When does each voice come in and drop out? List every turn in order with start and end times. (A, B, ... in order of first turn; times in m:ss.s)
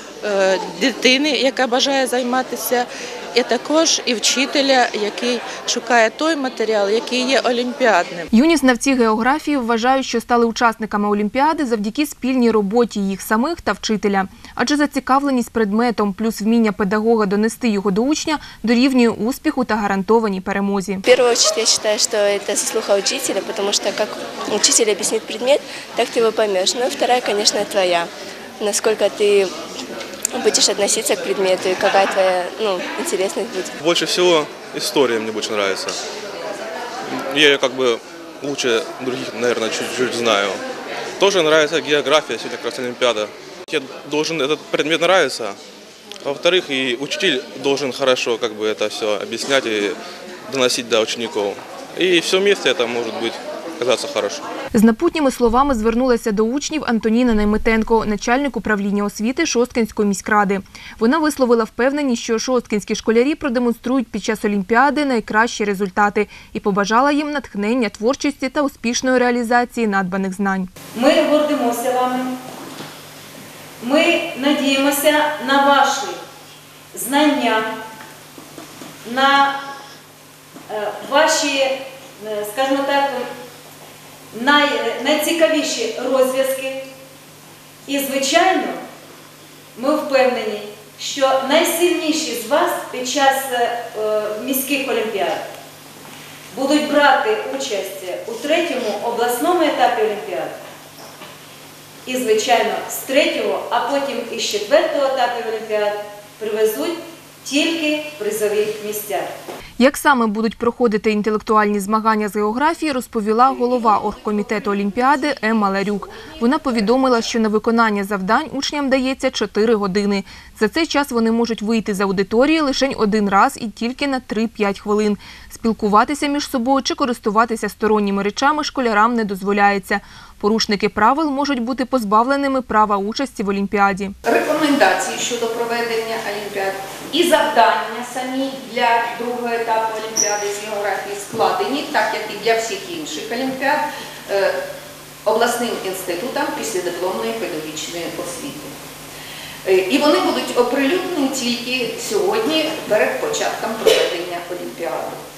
0:00.2-0:08.3 A
0:08.3-0:21.0 B
0:21.0-0:29.5 C
0:30.4-0:33.7 C
0:33.8-0:36.0 D
0:37.1-0:40.6 D
0:41.2-0:45.6 D
0:46.2-0:50.0 D
0:50.5-0:54.4 D
0:54.7-1:10.7 B
1:10.9-1:12.3 E
1:13.8-1:16.2 E
1:16.9-1:17.7 E
1:19.0-1:19.6 E
1:20.7-1:23.3 E
1:24.3-1:26.8 E
1:27.9-1:28.8 E
1:29.8-1:35.4 E
1:36.5-1:40.5 E
1:42.1-1:49.3 E
1:49.8-2:14.2 B
2:14.3-2:24.6 F
2:25.3-2:28.7 F
2:29.7-2:35.2 F